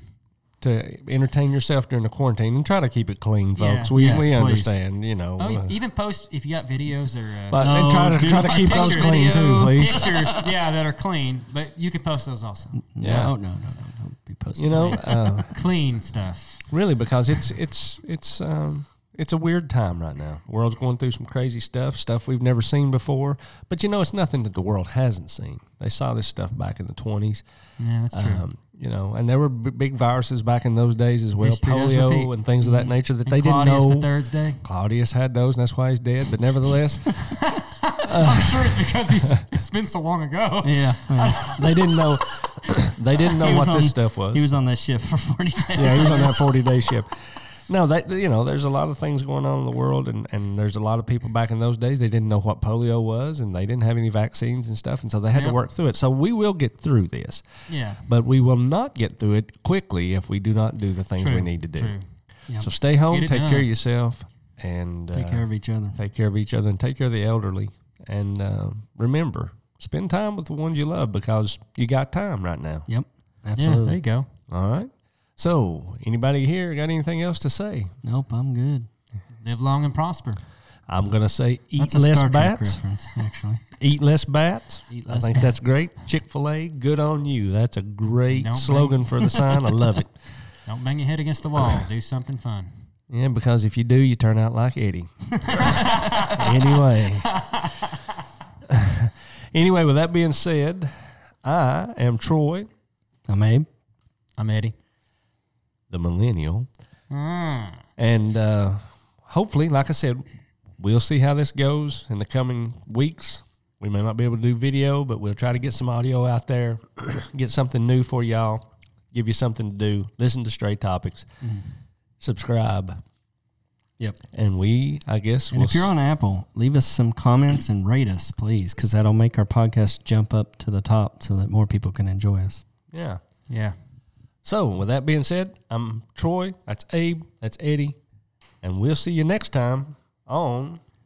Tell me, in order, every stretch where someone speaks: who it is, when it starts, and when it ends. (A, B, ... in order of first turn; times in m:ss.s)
0:00.6-0:05.8 A
0:03.6-0:04.0 B
0:03.9-0:04.7 C
0:05.4-0:12.8 B
0:07.5-0:10.2 A
0:07.6-0:10.5 C
0:12.8-0:15.5 C
0:13.0-0:13.3 A
0:14.6-0:15.5 A
0:15.5-0:16.6 B
0:16.7-0:27.4 A
0:27.8-0:28.4 B
0:28.1-0:34.1 A
0:31.4-0:34.6 B
0:34.6-0:37.3 A
0:37.2-0:41.8 B
0:38.0-0:39.4 A
0:40.6-0:41.6 C
0:41.5-0:44.5 A
0:43.3-0:46.4 C
0:45.8-0:57.5 A
0:55.3-0:55.6 B
0:57.7-0:58.0 B
0:58.0-1:02.0 A
1:01.2-1:02.0 B
1:02.6-1:12.9 A
1:03.1-1:03.7 B
1:05.1-1:06.0 C
1:12.9-1:14.0 C
1:13.6-1:14.3 B
1:14.5-1:17.9 A
1:18.0-1:18.9 C
1:19.4-1:20.4 B
1:20.9-1:22.8 A
1:21.8-1:23.6 C
1:23.8-1:30.1 A
1:24.9-1:25.6 C
1:28.3-1:29.5 B
1:30.7-1:32.7 B
1:33.1-1:37.4 A
1:35.5-1:36.2 C
1:35.5-1:38.2 B
1:38.6-1:42.7 A
1:43.3-1:43.7 C
1:44.4-1:44.7 B
1:45.9-1:46.7 A
1:47.1-1:47.8 B
1:48.0-1:50.2 A
1:50.8-2:01.3 A
2:01.4-2:01.7 C
2:02.2-2:03.0 A
2:04.3-2:05.9 A
2:05.5-2:12.6 C
2:12.9-2:13.2 A
2:13.5-2:13.8 B
2:14.4-2:18.0 A
2:18.6-2:20.8 A